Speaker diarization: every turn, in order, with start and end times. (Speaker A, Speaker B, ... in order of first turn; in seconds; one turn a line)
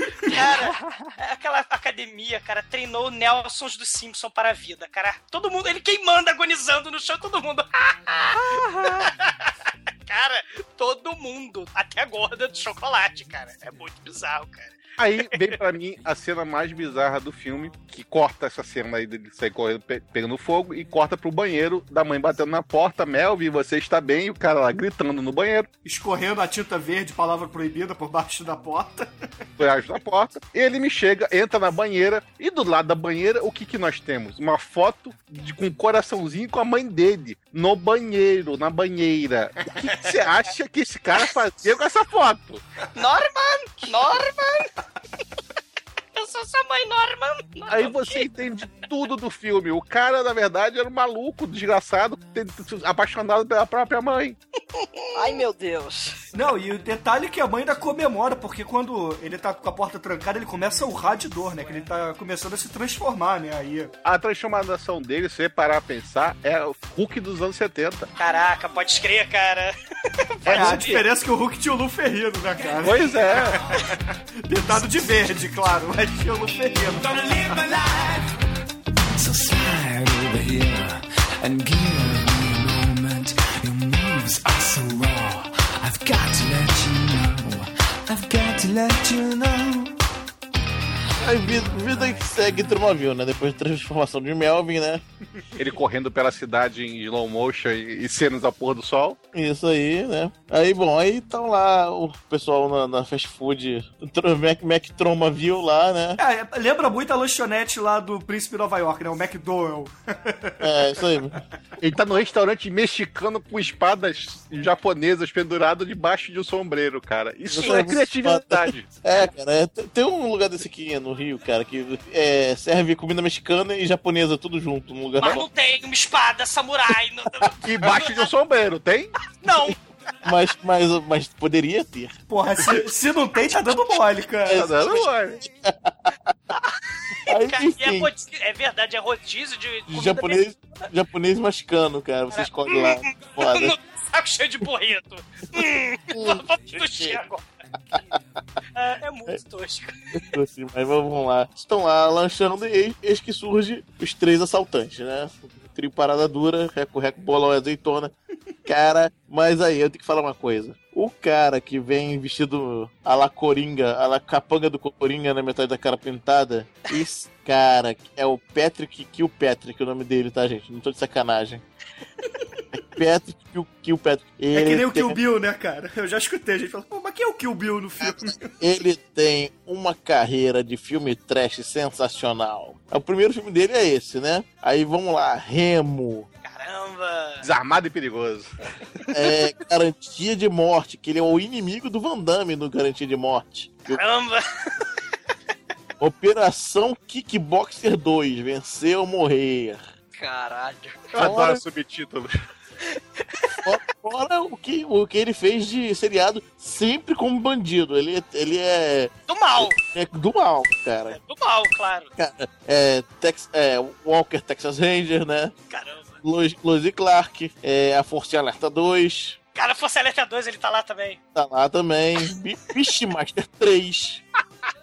Speaker A: 0.3-15.5
Speaker B: 15.0-25.7
Speaker C: 25.9-29.1
Speaker B: 29.6-42.6
Speaker A: 42.9-44.7
Speaker A: 46.1-48.3
Speaker B: 47.7-54.4
Speaker D: 55.1-56.2
Speaker C: 56.3-63.9
Speaker B: 64.0-68.1
Speaker A: 68.2-69.7
Speaker A: 70.4-71.0
Speaker B: 70.5-71.0
Speaker C: 70.5-74.0
Speaker B: 72.8-73.6
Speaker C: 74.5-77.5
Speaker E: 77.1-78.3
Speaker E: 79.2-90.0
Speaker F: 91.2-95.0
Speaker B: 95.6-99.2
Speaker F: 99.3-106.2
Speaker C: 106.2-110.9
Speaker F: 110.6-111.4
Speaker B: 111.8-119.0
Speaker F: 117.5-125.5
Speaker A: 117.6-117.8
Speaker A: 125.2-128.3
Speaker B: 127.6-129.1
Speaker A: 129.4-129.8
Speaker F: 130.3-132.1
Speaker C: 132.3-134.7
Speaker A: 133.5-133.9
Speaker F: 134.5-136.3
Speaker B: 134.5-135.4
Speaker F: 137.3-138.1
Speaker A: 137.3-140.9
Speaker F: 139.9-143.8
Speaker A: 142.3-148.0
Speaker F: 146.1-147.2
Speaker A: 148.8-150.3
Speaker F: 150.1-158.1
Speaker F: 158.7-171.6
Speaker F: 172.8-175.2
Speaker C: 174.5-178.6
Speaker F: 178.0-186.3
Speaker A: 186.4-187.5
Speaker B: 187.4-188.5
Speaker F: 189.1-194.0
Speaker A: 193.9-194.4
Speaker F: 196.0-199.8
Speaker D: 200.1-201.1
Speaker B: 201.2-202.3
Speaker F: 201.2-201.6
Speaker F: 203.7-211.2
Speaker A: 209.3-209.8
Speaker A: 211.1-212.1
Speaker F: 212.2-215.5
Speaker A: 215.7-216.2
Speaker F: 216.2-219.4
Speaker A: 219.6-221.2
Speaker F: 221.3-224.2